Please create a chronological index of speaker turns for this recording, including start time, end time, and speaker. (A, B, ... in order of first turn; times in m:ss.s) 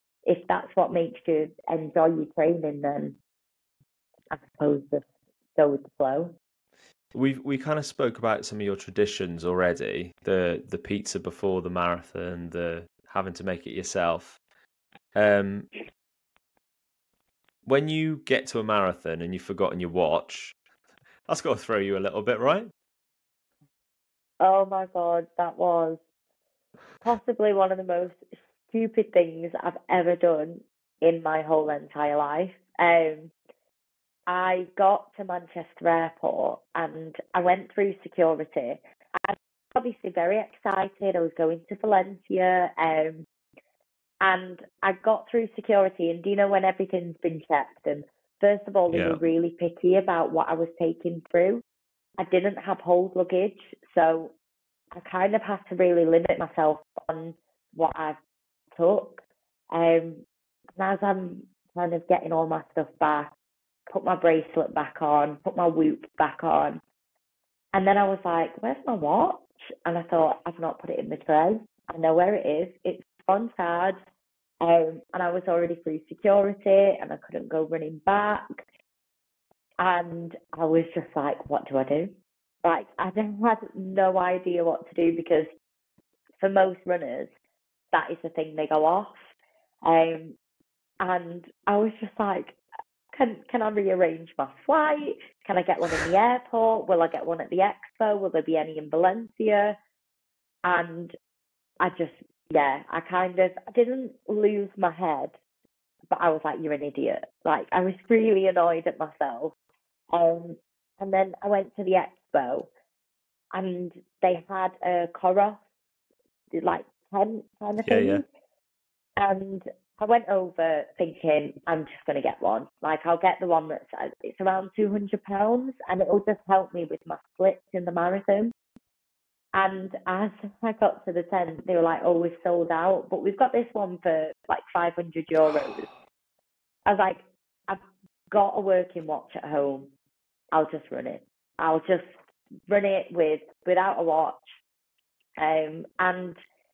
0:00.3-0:03.2 A
0:04.3-0:05.0 A
0:05.6-0:06.3 A
0:07.1-0:14.4 B
0:15.2-0:15.7 B
0:17.7-0:20.6 B
0:21.3-0:22.7 B
0:24.4-0:26.0 A
0:27.0-0:33.3 A
0:34.3-0:43.3 A
0:44.2-0:51.6 A
0:48.9-0:49.2 B
0:52.2-0:54.3 A
0:55.0-0:58.2 A
0:58.7-1:00.2 A
1:00.8-1:03.3 A
1:03.9-1:06.8 A
1:07.7-1:14.0 A
1:14.6-1:18.4 A
1:19.8-1:22.1 A
1:22.6-1:25.5 A
1:26.4-1:27.3 A
1:27.9-1:29.3 A
1:29.9-1:30.4 A
1:31.0-1:32.6 A
1:33.2-1:39.8 A
1:40.6-1:41.2 A
1:41.8-1:45.4 A
1:46.1-1:49.5 A
1:50.1-1:52.7 A
1:53.5-1:55.6 A
1:56.6-1:58.2 A
1:57.8-1:58.2 B
1:59.2-2:08.5 A
2:09.5-2:15.9 A
2:16.9-2:19.9 A
2:20.5-2:22.1 A
2:22.7-2:24.4 A
2:25.4-2:26.4 A